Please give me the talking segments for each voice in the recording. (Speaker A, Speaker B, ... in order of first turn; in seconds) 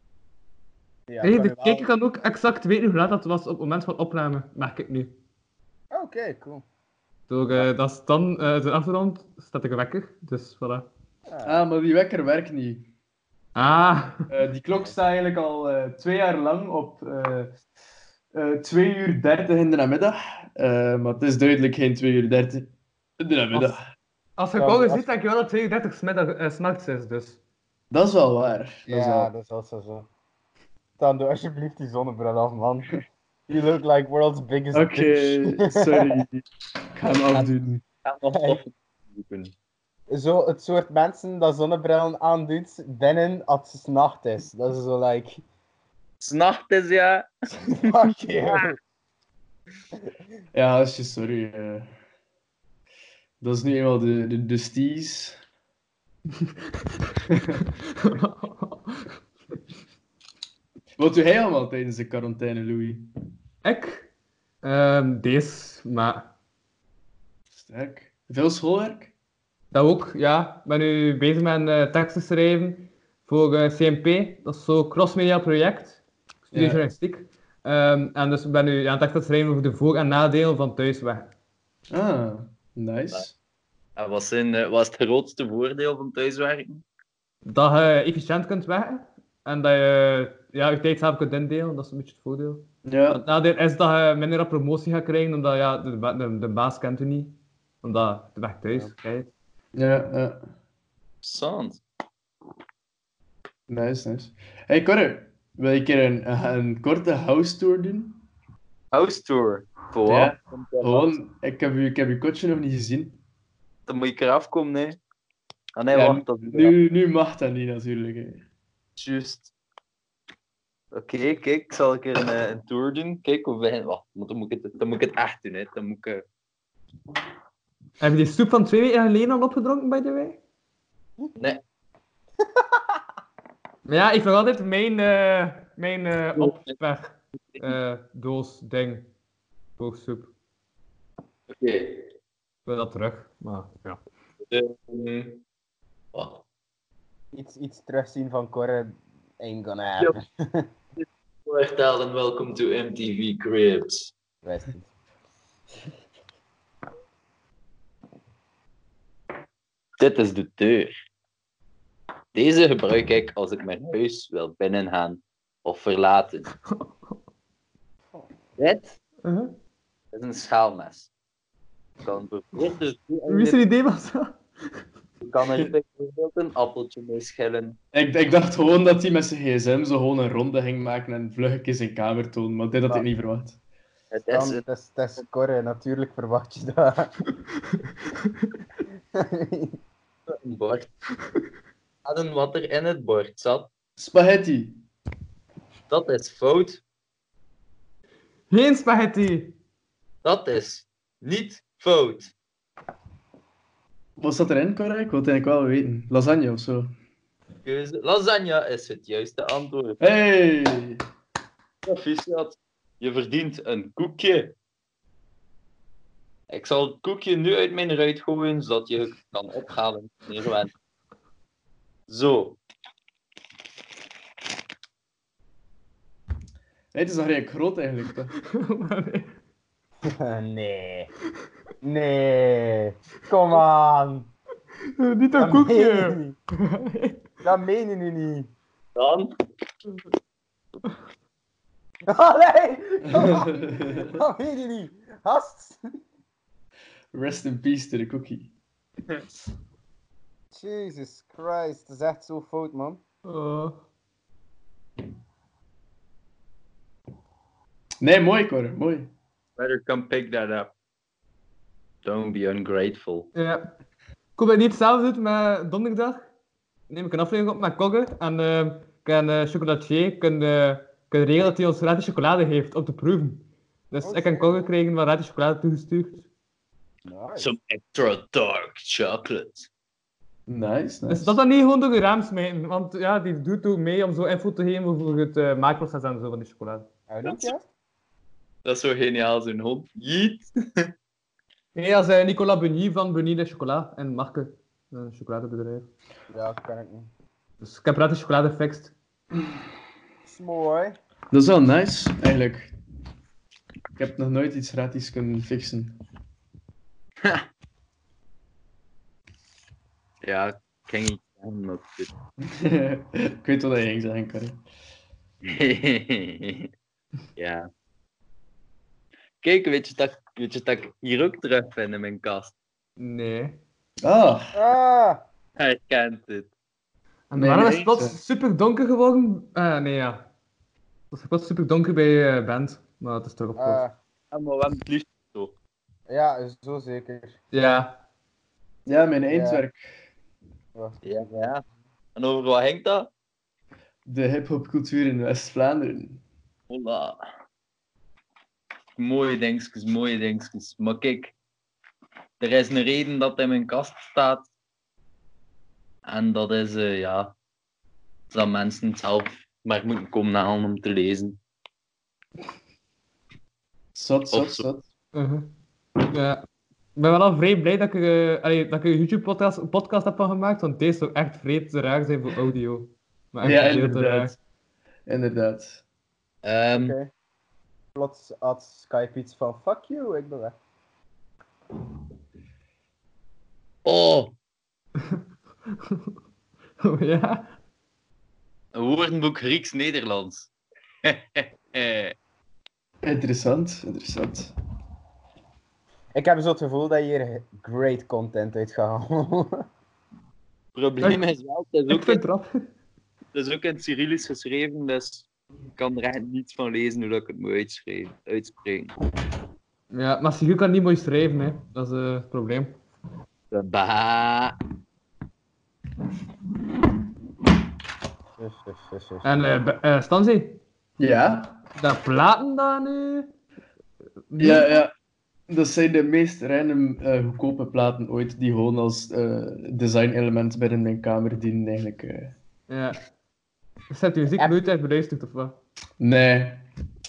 Speaker A: 1.1-1.9, 5.9-6.6, 11.3-11.7, 24.6-25.1, 28.9-30.1, 31.0-32.9, 33.5-36.2, 38.3-38.6, 40.1-45.4, 47.7-48.8, 147.3-150.7, 154.4-154.9, 184.3-187.1, 189.1-189.8, 230.0-231.1, 231.8-234.3, 235.4-236.3, 237.4-238.5, 242.1-245.8, 250.5-253.0, 274.0-274.7, 277.0-277.5, 287.1-287.6, 296.3-297.1, 300.2-301.0, 324.5-325.2, 333.6-333.9, 336.1-337.4, 339.3-339.6, 340.7-341.0, 376.7-377.1, 377.9-380.6, 396.1-399.6, 418.4-419.6
Speaker B: 1.2-5.1, 7.3-10.9, 13.5-14.3, 23.5-23.8, 24.4-27.4, 58.0-59.1, 63.6-64.1, 64.6-66.3, 69.7-81.3, 87.5-99.3, 128.0-130.4, 133.8-139.1, 139.8-140.3, 142.7-144.0, 169.2-169.5, 173.3-174.4, 198.5-199.6, 228.5-229.3, 235.0-237.2, 253.2-253.8, 263.3-263.7, 264.4-266.2, 266.9-276.3, 281.1-286.9, 291.7-295.9, 297.6-298.9, 323.0-323.6, 327.3-330.3, 331.1-333.8, 337.5-338.0, 365.1-366.4, 366.9-374.3, 386.8-387.5, 401.9-402.6, 409.9-412.8, 419.2-420.6, 421.8-423.3, 424.3-424.7, 432.7-433.0, 433.9-435.6
Speaker C: 11.4-12.9, 14.3-17.5, 18.3-23.9, 27.9-29.3, 34.7-37.8, 50.5-51.9, 53.4-55.4, 57.3-57.6, 61.0-63.1, 67.5-69.1, 76.5-76.8, 81.9-83.3, 92.8-93.2, 99.7-100.4, 103.7-108.2, 110.1-113.2, 115.9-118.4, 177.9-183.6, 194.0-194.8, 204.2-206.9, 210.0-211.0, 226.9-228.3, 243.1-244.2, 247.1-248.5, 258.0-259.1, 280.5-281.4, 301.3-302.7, 304.0-306.0, 312.4-314.6, 324.0-324.5, 327.4-328.2, 338.9-339.8, 344.1-346.2, 363.9-364.8, 373.4-374.4, 375.1-375.8, 393.0-394.5, 421.0-421.6, 424.4-424.9, 425.5-432.4, 436.0-436.7
Speaker D: 38.0-39.5, 46.2-48.7, 84.0-86.8, 101.2-101.8, 108.9-111.2, 113.9-115.0, 115.8-116.8, 119.0-119.5, 120.9-126.2, 131.3-131.6, 136.4-136.7, 141.5-142.1, 144.5-145.4, 146.1-146.4, 151.0-154.1, 160.0-160.9, 162.3-166.5, 168.6-169.0, 170.1-171.1, 172.0-173.6, 175.2-177.8, 184.1-184.6, 190.3-190.9, 192.0-193.7, 195.9-196.8, 200.2-202.3, 207.6-210.0, 211.8-214.5, 216.5-220.7, 222.1-222.6, 238.9-239.3, 259.6-260.7, 262.0-263.3, 277.4-279.7, 287.2-287.5, 288.6-290.9, 310.2-312.1, 315.4-316.7, 317.4-317.7, 319.4-322.5, 325.6-326.5, 334.3-335.5, 341.0-341.6, 342.1-343.1, 346.7-347.2, 348.9-351.3, 352.4-354.4, 356.0-357.3, 358.3-361.4, 364.3-364.7, 376.4-376.9, 383.8-384.3, 388.7-390.5, 391.0-392.1, 400.7-402.2, 403.3-408.9, 413.5-414.6